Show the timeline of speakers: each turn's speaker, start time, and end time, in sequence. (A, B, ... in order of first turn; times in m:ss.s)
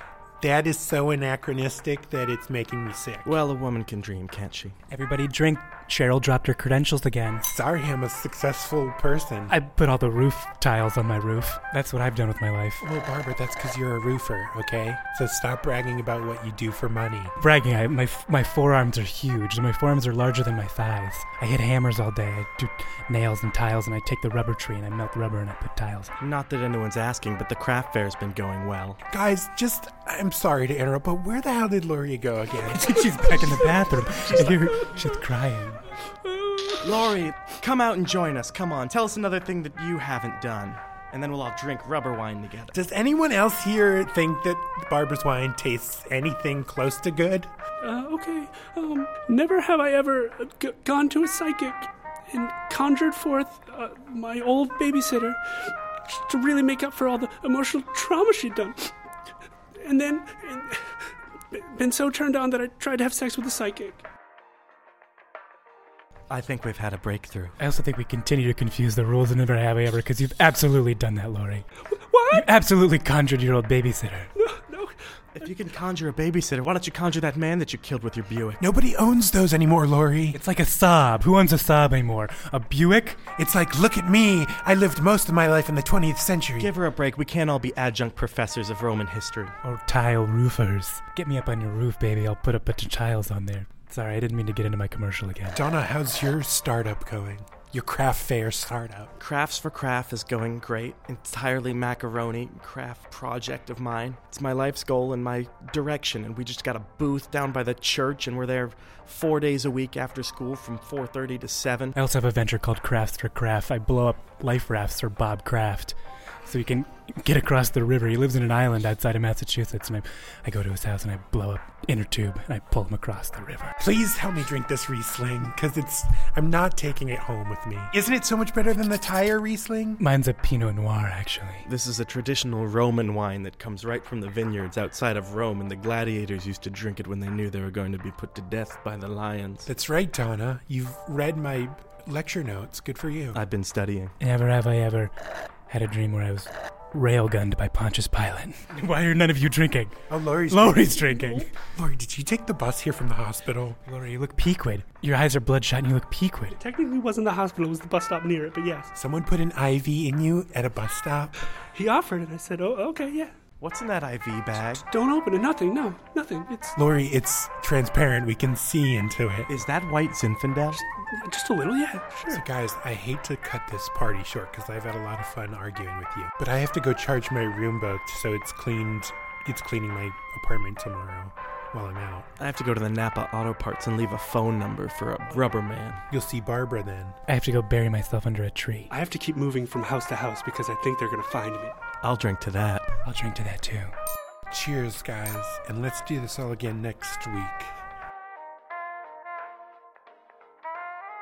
0:00.4-0:03.4 A
0:03.2-0:04.8 B
0:04.9-0:07.5 C
0:07.4-0:09.6 A
0:09.5-0:12.8 C
0:12.8-0:17.3 A
0:17.4-0:26.1 C
0:26.2-0:29.0 B
0:29.1-0:33.6 A
0:32.7-0:35.8 C
0:36.3-0:36.7 D
0:36.8-0:42.8 B
0:42.7-0:47.5 A
0:47.8-0:58.9 D
0:59.8-1:04.0 D
1:06.3-1:07.6 B
1:07.6-1:11.6 C
1:12.0-1:12.5 D
1:12.3-1:14.3 C
1:14.4-1:15.0 D
1:15.3-1:18.6 B
1:18.6-1:20.4 A
1:20.3-1:23.2 C
1:23.4-1:26.7 A
1:26.6-1:29.6 B
1:29.6-1:35.6 C
1:35.5-1:39.1 A
1:39.2-1:52.0 B
1:52.0-2:03.8 C
2:03.8-2:10.0 A
2:10.0-2:11.7 C
2:11.7-2:19.7 B
2:19.7-2:23.4 A
2:23.3-2:24.2 B
2:24.2-2:25.1 C
2:25.7-2:31.5 C
2:30.1-2:33.8 A
2:33.9-2:36.6 C
2:36.6-2:38.9 D
2:38.9-2:41.3 A
2:41.7-2:43.3 D
2:43.6-2:44.8 B
2:44.7-2:46.8 D
2:46.8-2:49.5 A
2:49.5-2:50.8 B
2:50.9-2:52.4 D
2:52.3-3:02.3 A
3:02.4-3:06.0 B
3:06.1-3:07.2 A
3:07.3-3:08.9 C
3:08.9-3:11.8 D
3:12.0-3:12.9 B
3:13.0-3:13.9 C
3:14.5-3:17.8 A